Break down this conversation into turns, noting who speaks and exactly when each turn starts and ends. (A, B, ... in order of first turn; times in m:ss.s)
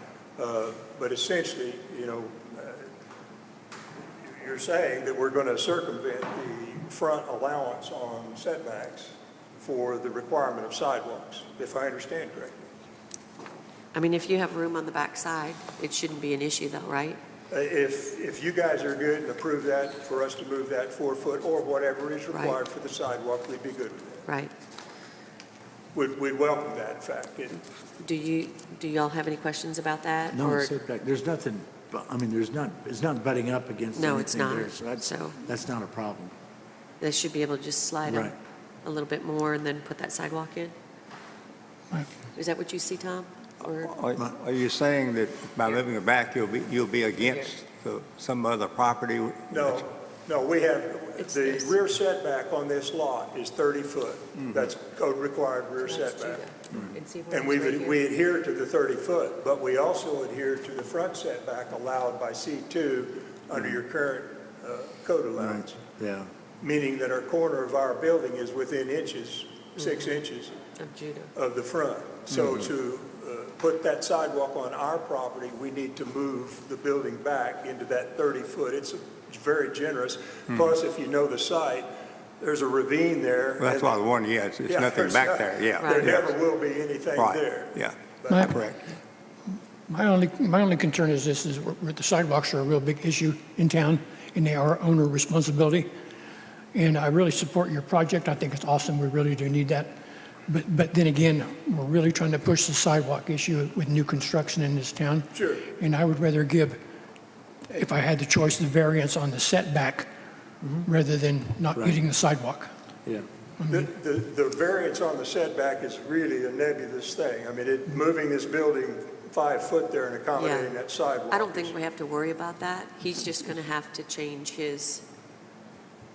0:00.4-0:02.9 A
0:04.3-0:12.7 A
0:13.9-0:17.2 B
0:17.5-0:24.3 A
0:22.3-0:22.6 B
0:24.3-0:24.5 B
0:25.9-0:27.6 A
0:28.0-0:30.7 B
0:30.3-0:36.3 C
0:34.0-0:35.4 B
0:37.0-0:40.7 B
0:38.1-0:38.4 C
0:42.3-0:43.9 B
0:43.8-0:49.8 D
0:47.2-0:47.5 B
0:49.5-0:56.5 A
0:51.2-0:51.8 B
0:54.4-0:54.7 D
0:55.8-0:58.0 B
0:57.3-1:05.8 A
1:05.4-1:06.3 C
1:06.6-1:10.6 A
1:10.8-1:11.3 B
1:11.4-1:21.9 A
1:22.4-1:24.0 A
1:23.6-1:26.3 D
1:24.7-1:28.6 A
1:25.8-1:26.1 B
1:27.2-1:28.8 D
1:28.3-1:28.6 E
1:29.9-1:35.9 E
1:36.7-1:40.0 E
1:40.5-1:46.8 E
1:45.3-1:45.7 A
1:47.7-1:50.1 E
1:50.8-1:52.7 E
1:51.8-1:52.0 C
1:53.6-1:53.9 E
1:53.7-2:01.8 A
2:00.4-2:00.7 B
2:01.3-2:05.0 B